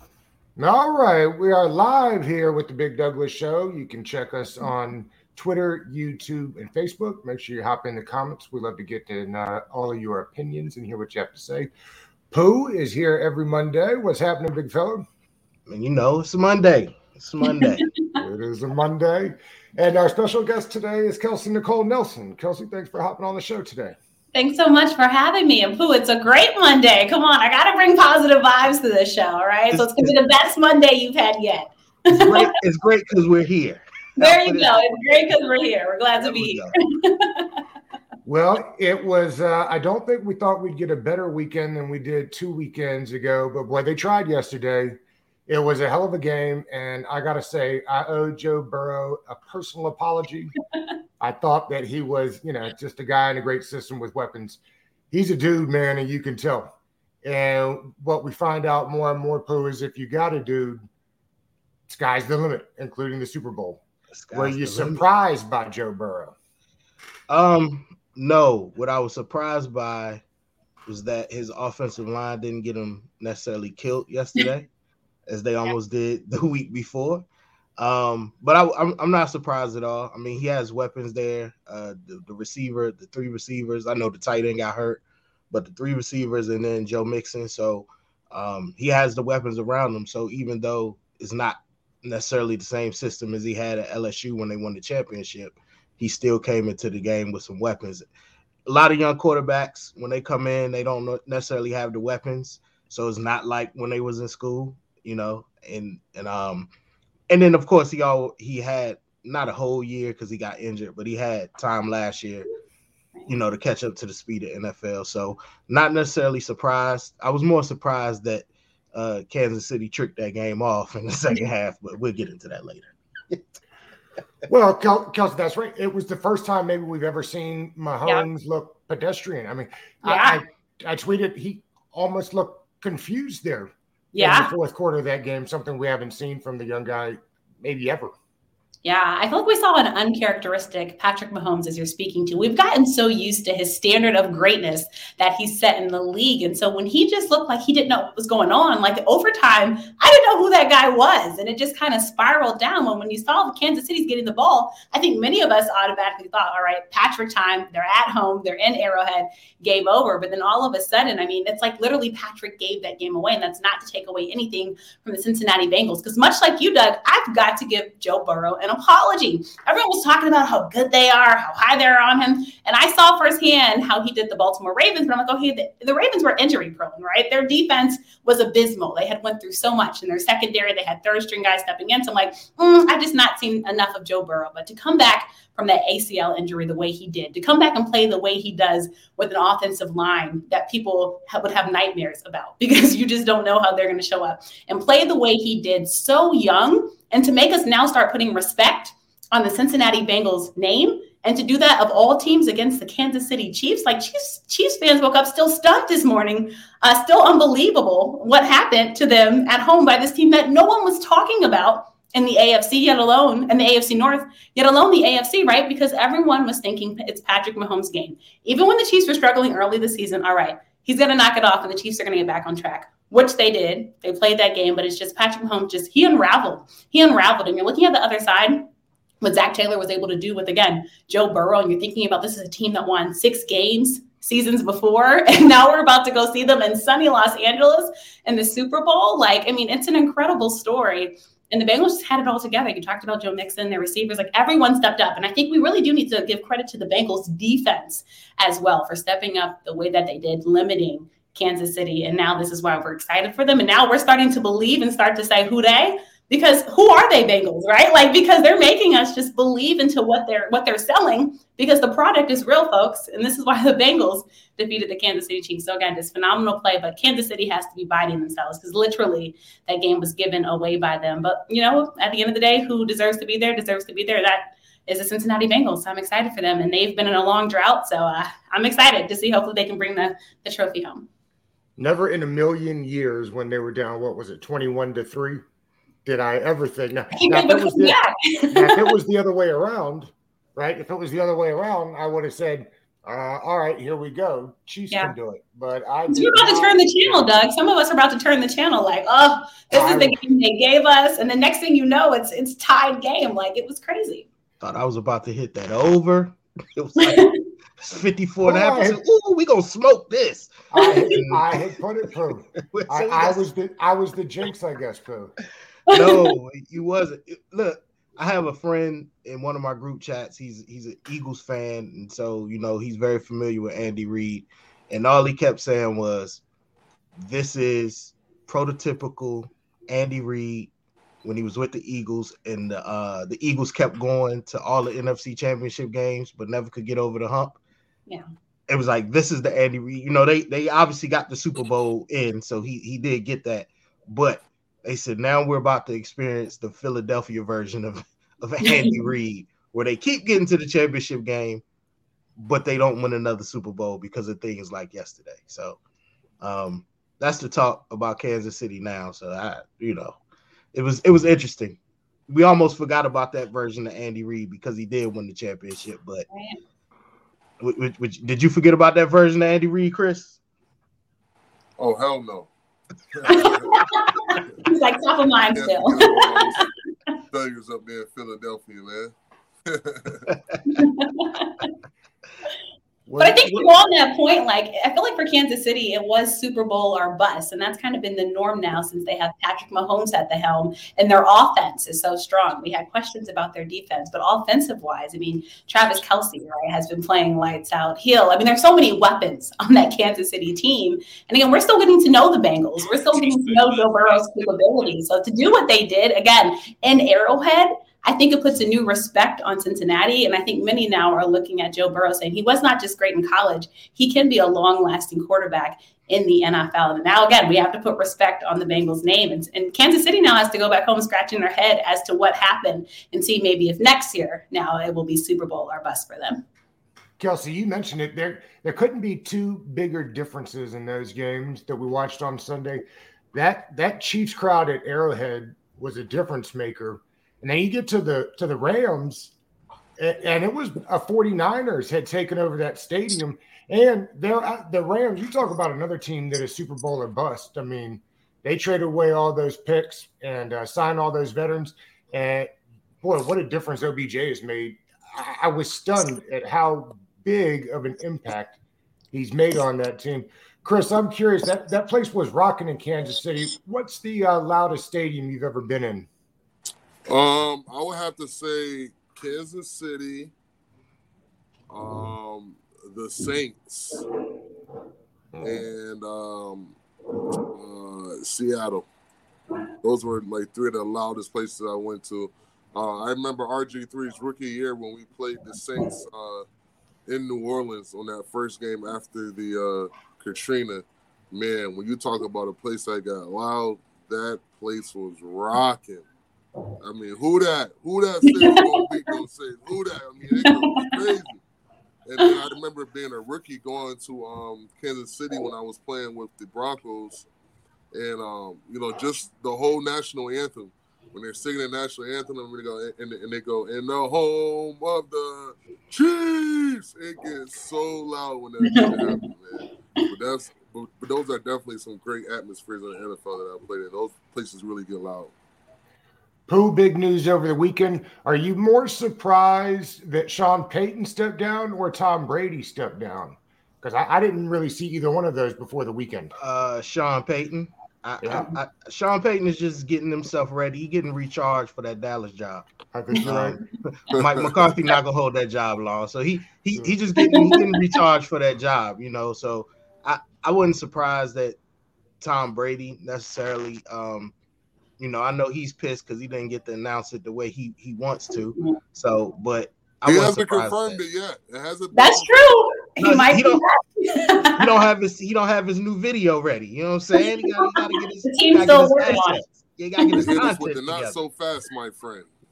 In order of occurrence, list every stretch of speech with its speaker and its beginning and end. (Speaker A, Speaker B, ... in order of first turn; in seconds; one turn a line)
Speaker A: 0.6-11.7
Speaker A: 12.3-15.1
Speaker B: 15.7-17.8
Speaker C: 17.4-18.1
Speaker A: 18.2-24.0
Speaker C: 24.3-32.4
Speaker B: 29.7-30.2
Speaker B: 32.1-35.3
Speaker C: 34.2-37.5
Speaker B: 36.2-36.7
Speaker A: 38.2-50.5
Speaker A: 51.2-60.8
Speaker A: 61.9-66.3
Speaker B: 64.1-65.0
Speaker B: 67.3-70.2
Speaker B: 70.9-74.7
Speaker B: 75.3-77.2
Speaker B: 77.8-98.0
Speaker B: 98.7-106.7
Speaker B: 107.3-112.5
Speaker B: 113.3-123.6
Speaker A: 124.5-138.1
Speaker C: 130.0-130.4
Speaker C: 134.1-134.5
Speaker C: 138.8-228.7
Speaker C: 229.2-281.1
Speaker A: 281.8-285.4
Speaker A: 286.0-288.0
Speaker C: 287.1-288.9
Speaker A: 288.5-297.2
Speaker C: 296.1-304.3
Speaker A: 299.7-300.2
Speaker B: 304.6-311.6
Speaker A: 308.4-309.0
Speaker A: 310.7-315.3
Speaker B: 312.7-313.4
Speaker B: 315.9-326.4
Speaker C: 315.9-316.3
Speaker B: 327.2-330.7
Speaker B: 331.2-337.6
Speaker B: 338.7-351.6
Speaker C: 348.6-349.0
Speaker B: 352.4-355.8
Speaker B: 356.4-360.2
Speaker B: 360.7-361.8
Speaker B: 362.3-366.3
Speaker C: 366.3-366.6
Speaker B: 367.6-370.4
Speaker D: 371.8-372.5
Speaker D: 373.1-373.7
Speaker C: 373.2-376.6
Speaker D: 375.5-376.7
Speaker D: 377.3-379.1
Speaker D: 379.7-380.2
Speaker B: 380.3-380.6
Speaker C: 380.7-381.7
Speaker A: 383.1-383.7
Speaker C: 383.2-426.4
Speaker A: 427.2-439.3
Speaker A: 440.0-452.5
Speaker A: 453.0-458.6
Speaker A: 459.1-466.1
Speaker D: 467.1-470.3
Speaker D: 471.7-474.1
Speaker A: 475.3-475.6
Speaker D: 475.4-476.8
Speaker D: 477.5-478.9
Speaker D: 479.8-486.4
Speaker D: 487.1-496.1
Speaker D: 496.8-501.4
Speaker C: 498.3-499.1
Speaker C: 500.4-501.1
Speaker D: 502.0-507.2
Speaker D: 507.9-525.3
Speaker C: 518.6-519.2
Speaker A: 526.5-536.3
Speaker B: 536.4-542.7
Speaker A: 538.2-538.5
Speaker A: 542.9-543.6
Speaker B: 543.2-551.6
Speaker D: 544.2-544.5
Speaker C: 547.2-547.8
Speaker B: 552.2-554.3
Speaker B: 555.0-561.0
Speaker D: 560.0-562.3
Speaker C: 561.9-564.6
Speaker B: 563.0-563.6
Speaker B: 564.5-571.2
Speaker C: 568.3-569.4
Speaker D: 570.2-572.3